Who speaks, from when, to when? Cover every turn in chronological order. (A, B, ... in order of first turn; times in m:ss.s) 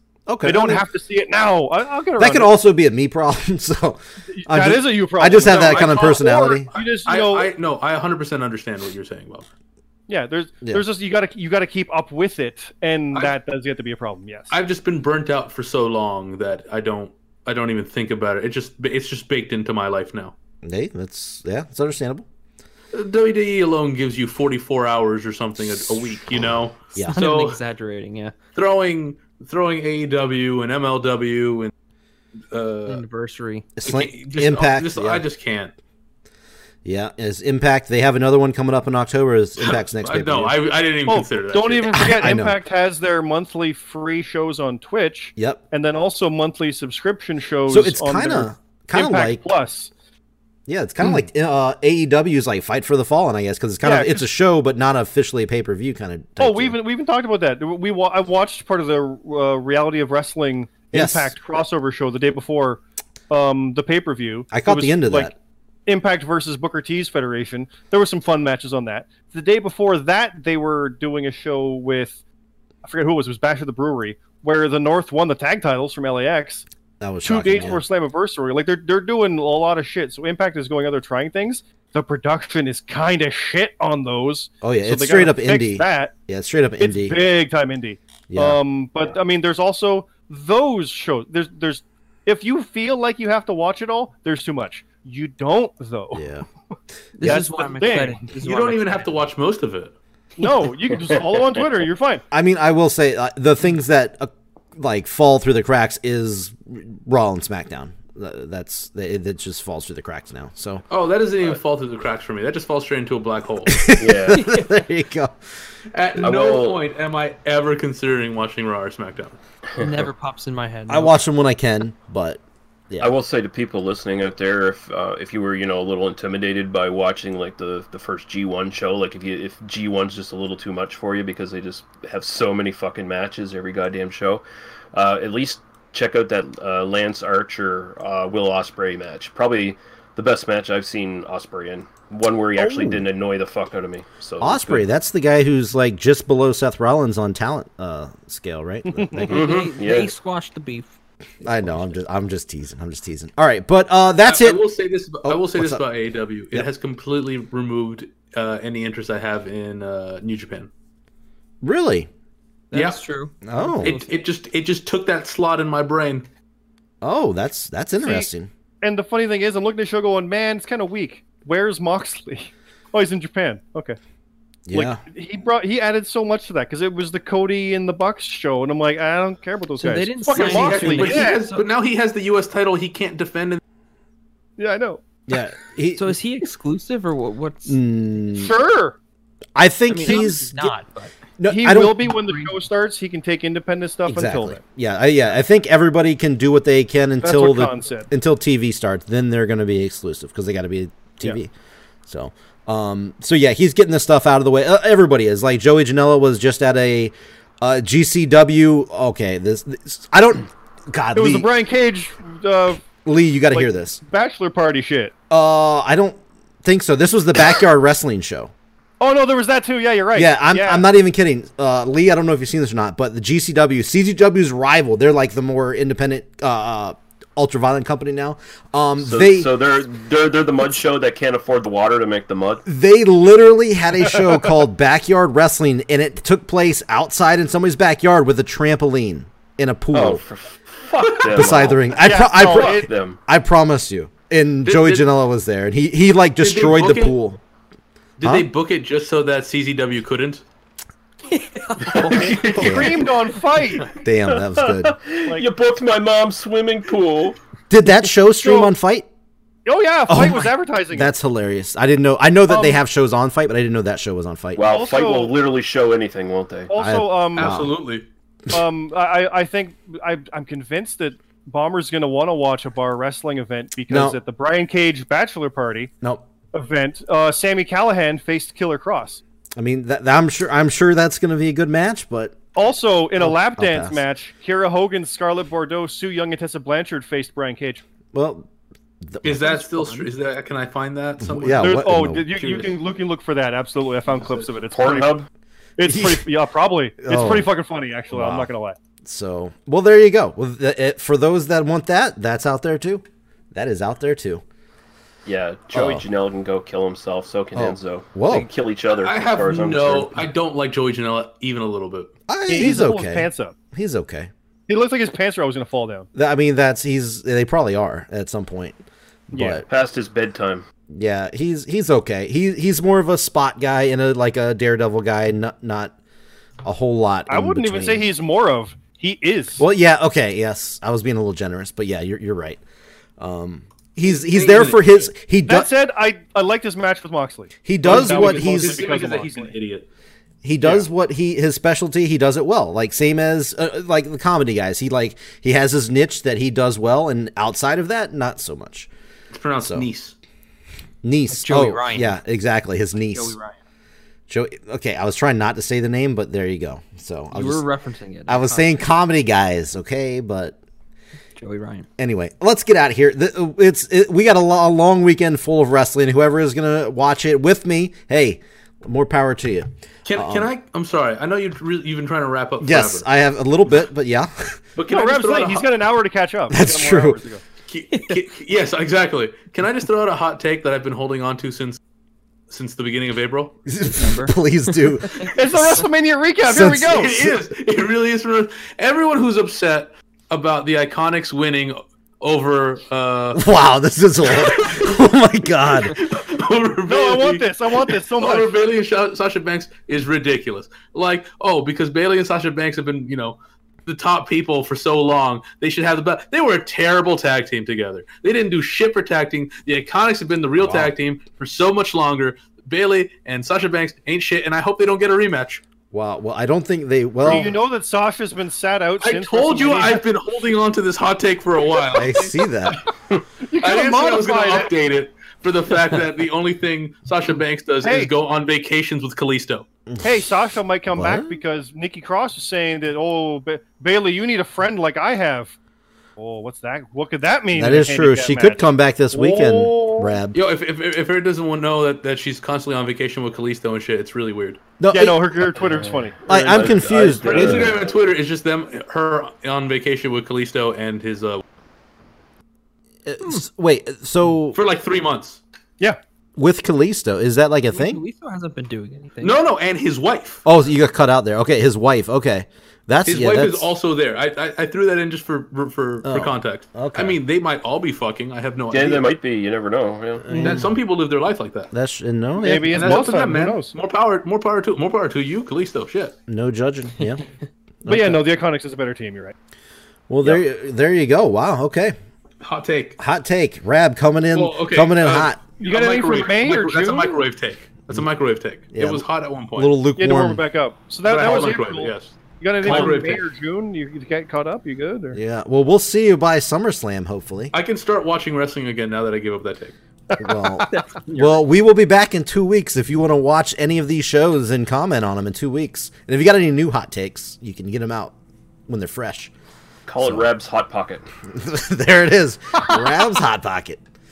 0:00.3-0:00.8 A
0:00.4-0:02.5 B
0:02.2-0:06.7 A
0:04.3-0:07.5 B
0:05.4-0:09.5 C
0:10.1-0:14.6 B
0:14.5-0:20.3 C
0:20.6-0:22.3 A
0:22.9-0:27.6 C
0:27.1-0:28.4 D
0:28.6-0:31.7 C
0:32.5-0:33.0 C
0:32.9-0:33.7 D
0:33.8-0:35.2 A
0:33.8-0:35.7 C
0:36.8-0:40.6 A
0:39.6-0:42.2 C
0:41.1-0:49.9 B
0:42.0-0:42.6 A
0:45.4-0:45.6 A
0:47.7-0:49.4 A
0:50.7-0:56.8 A
0:53.8-0:54.3 B
0:56.4-1:05.3 B
1:00.9-1:01.3 A
1:04.5-1:05.3 A
1:05.9-1:12.2 B
1:12.8-1:16.6 B
1:17.0-1:17.8 A
1:17.2-1:26.1 B
1:24.6-1:27.2 A
1:26.8-1:36.3 B
1:28.3-1:28.6 A
1:36.1-1:36.4 A
1:37.2-1:39.1 D
1:37.2-1:38.2 B
1:38.4-1:39.9 C
1:40.4-1:42.2 B
1:42.3-1:50.8 A
1:50.9-1:53.9 C
1:53.7-1:55.4 A
1:54.0-1:54.4 E
1:54.4-1:54.7 D
1:55.9-1:59.4 C
1:56.2-1:56.8 E
1:59.8-2:01.2 D
2:00.9-2:03.1 A
2:03.0-2:24.9 E
2:22.6-2:23.0 A
2:24.4-2:29.3 A
2:28.9-2:29.4 B
2:29.2-2:30.1 E
2:29.2-2:30.9 D
2:31.4-2:32.0 D
2:31.4-2:34.6 A
2:34.3-2:40.7 C
2:35.2-2:35.8 A
2:41.6-2:42.1 A
2:42.7-2:44.2 D
2:42.7-2:43.0 C
2:43.4-2:44.0 A
2:43.8-2:46.3 C
2:47.0-2:48.5 A
2:48.0-2:48.3 B
2:48.8-2:54.0 B
2:54.7-2:55.0 A
2:54.7-3:01.4 B
2:59.8-3:01.7 D
3:00.3-3:03.6 C
3:04.6-3:05.0 B
3:05.3-3:06.2 A
3:06.0-3:07.8 D
3:07.7-3:08.5 A
3:08.3-3:09.0 B
3:09.6-3:10.7 A
3:09.9-3:11.1 D
3:10.0-3:10.3 B
3:11.4-3:12.2 A
3:11.5-3:14.6 B
3:12.3-3:12.5 D
3:14.1-3:21.5 A
3:17.2-3:18.1 B
3:22.1-3:31.5 A
3:31.1-3:32.9 B
3:33.0-3:34.0 A
3:33.5-3:35.1 B
3:35.3-3:38.5 A
3:39.0-3:40.8 B
3:40.2-3:49.5 A
3:49.0-3:52.6 E
3:52.7-4:00.2 A
3:59.9-4:03.2 E
4:01.2-4:07.4 A
4:02.0-4:02.9 B
4:04.6-4:05.0 C
4:06.4-4:07.2 C
4:08.2-4:10.4 C
4:11.3-4:12.5 D
4:11.8-4:13.1 E
4:12.0-4:13.9 B
4:12.6-4:13.1 A
4:14.0-4:15.0 A
4:14.3-4:17.4 E
4:17.7-4:19.1 A
4:18.4-4:18.7 B
4:19.6-4:21.1 B
4:20.1-4:24.7 A
4:22.5-4:22.8 B
4:24.6-4:26.7 E
4:24.7-4:25.3 B
4:26.7-4:27.6 B
4:26.8-4:27.7 A
4:27.4-4:28.0 C
4:28.5-4:35.9 B
4:33.9-4:34.2 A
4:36.5-4:39.2 B
4:39.6-4:42.4 A
4:42.6-4:47.8 B
4:43.2-4:44.0 A
4:48.1-4:48.5 A
4:49.0-4:49.6 A
4:49.2-4:52.7 C
4:49.4-4:50.1 B
4:51.2-4:52.3 A
4:51.6-4:55.2 B
4:54.7-4:55.3 E
4:55.8-4:58.8 B
4:55.8-4:56.3 A
4:57.0-4:57.5 A
4:58.1-4:58.5 A
4:59.0-5:04.4 A
5:05.3-5:10.2 E
5:05.7-5:06.0 A
5:07.6-5:08.5 A
5:09.0-5:12.1 C
5:12.3-5:14.3 A
5:12.5-5:13.5 B
5:14.7-5:16.1 B
5:16.2-5:19.7 A
5:19.3-5:19.6 B
5:19.7-5:20.6 E
5:20.9-5:25.9 A
5:26.6-5:28.1 A
5:27.3-5:29.6 B
5:29.6-5:32.6 A
5:33.2-5:35.7 A
5:34.3-5:35.1 C
5:35.5-5:39.5 B
5:37.7-5:38.9 A
5:37.8-5:39.9 C
5:40.4-5:48.9 A
5:49.3-5:50.2 C
5:51.0-5:53.4 A
5:51.3-5:52.2 D
5:53.1-5:53.6 D
5:54.3-5:57.6 A
5:57.3-5:58.8 D
5:58.3-6:00.6 A
6:01.4-6:01.9 D
6:02.0-6:10.5 A
6:10.0-6:13.1 C
6:12.6-6:14.6 A
6:14.8-6:15.7 C
6:14.9-6:17.4 B
6:16.5-6:17.2 A
6:17.7-6:21.8 C
6:17.9-6:18.2 D
6:22.5-6:23.6 C
6:23.7-6:25.9 A
6:24.0-6:25.3 D
6:25.3-6:27.2 B
6:26.4-6:27.4 A
6:26.9-6:33.4 C
6:33.3-6:36.0 A
6:34.3-6:34.9 C
6:35.8-6:55.6 C
6:36.9-6:38.6 B
6:50.6-6:50.9 A
6:55.9-6:57.5 A
6:57.2-7:00.0 B
6:59.0-7:02.8 C
7:01.9-7:02.8 A
7:03.5-7:04.7 B
7:03.6-7:09.7 C
7:07.8-7:08.1 B
7:09.9-7:10.3 A
7:10.0-7:15.6 B
7:10.9-7:11.4 A
7:16.2-7:18.6 B
7:17.5-7:20.4 A
7:19.1-7:20.2 B
7:20.3-7:24.6 C
7:24.8-7:25.5 A
7:24.9-7:26.2 B
7:25.6-7:27.9 E
7:26.3-7:27.8 A
7:27.2-7:31.4 C
7:33.1-7:34.6 A
7:34.5-7:35.4 C
7:36.4-7:38.0 A
7:37.7-7:39.4 D
7:39.2-7:40.4 C
7:40.5-7:43.7 A
7:43.1-7:49.1 C
7:46.0-7:47.2 A
7:48.7-7:50.3 E
7:50.3-7:50.8 A
7:50.3-7:50.6 B
7:50.3-7:51.7 C
7:51.7-7:53.1 A
7:52.4-7:53.7 B
7:52.7-7:56.2 C
7:56.3-7:57.2 A
7:57.8-7:58.3 A
7:57.9-7:59.4 B
8:00.1-8:02.0 A
8:02.4-8:03.0 C
8:03.0-8:05.4 A
8:04.3-8:09.8 C
8:05.6-8:07.2 B
8:08.7-8:10.4 A
8:10.0-8:15.2 B
8:11.0-8:13.2 C
8:15.1-8:17.5 A
8:17.5-8:19.8 C
8:20.2-8:28.1 A
8:20.7-8:21.4 D
8:28.7-8:29.3 A
8:29.9-8:31.1 E
8:31.3-8:33.8 A